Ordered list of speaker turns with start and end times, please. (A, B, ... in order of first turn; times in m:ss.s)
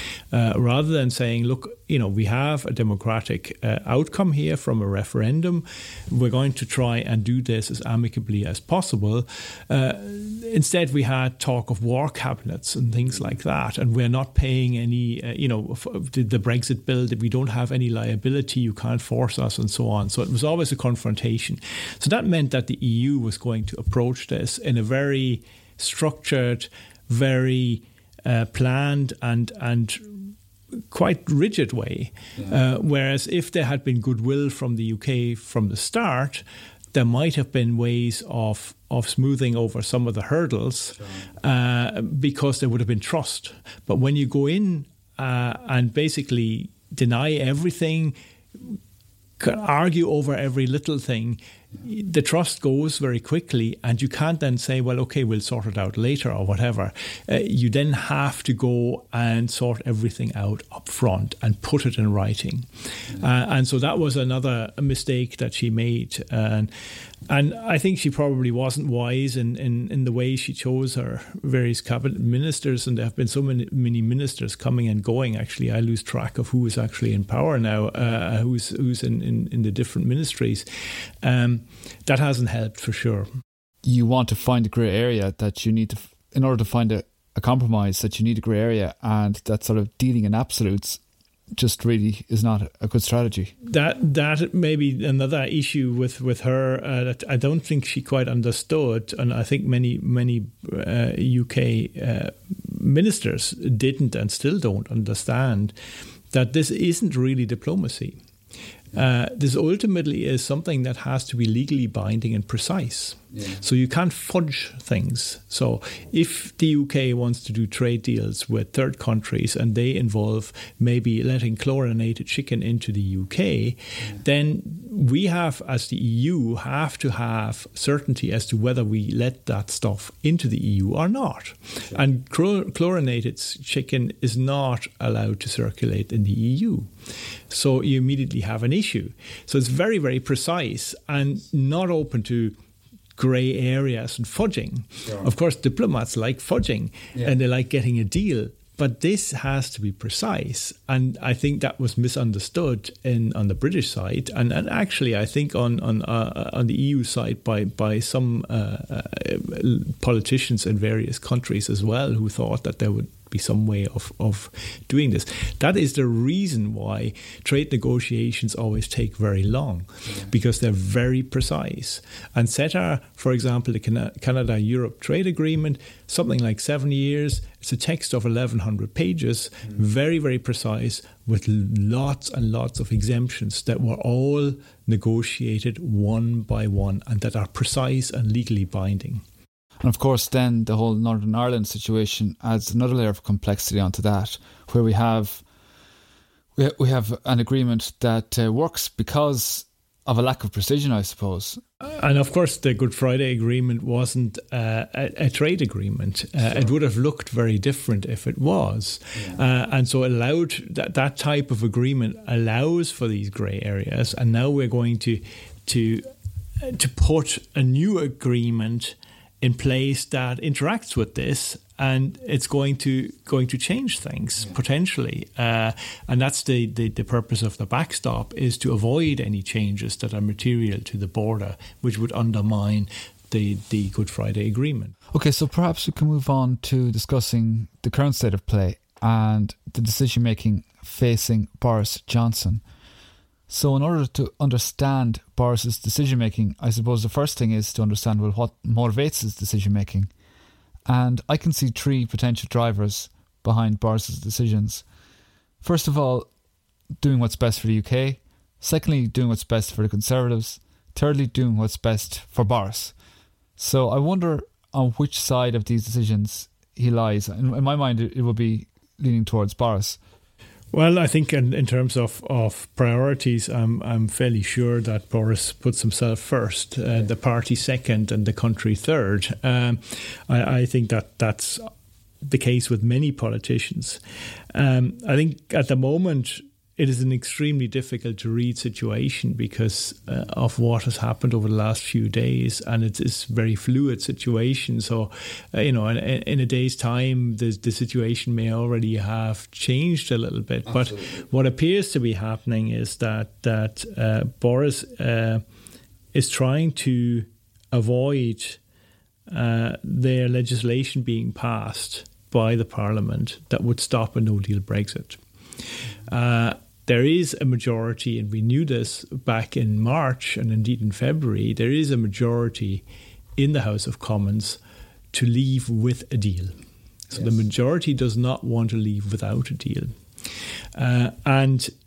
0:00.3-0:30.3 A
0:30.9-0:48.8 A
0:41.0-0:41.3 B
0:49.4-1:20.6 A
1:21.2-1:23.3 A
1:23.8-1:31.0 B
1:31.6-1:33.5 B
1:33.6-1:45.7 A
1:46.3-1:48.2 A
1:48.9-2:16.9 A
1:53.3-1:53.6 B
2:17.5-2:22.5 A
2:23.2-3:09.2 A
3:09.8-3:15.4 B
3:16.6-3:21.6 B
3:21.8-3:36.1 A
3:36.6-3:54.9 A
3:55.1-4:02.6 B
4:03.5-4:10.1 B
4:10.9-4:14.8 B
4:15.6-4:16.3 B
4:17.0-4:22.9 B
4:23.6-4:30.0 B
4:30.7-4:41.7 A
4:42.2-4:44.0 A
4:44.5-5:05.4 A
5:00.6-5:01.2 B
5:06.1-5:08.6 A
5:09.3-5:15.2 A
5:15.9-5:22.8 A
5:23.4-5:24.6 A
5:25.1-5:26.5 A
5:27.1-5:30.0 A
5:30.7-5:31.7 A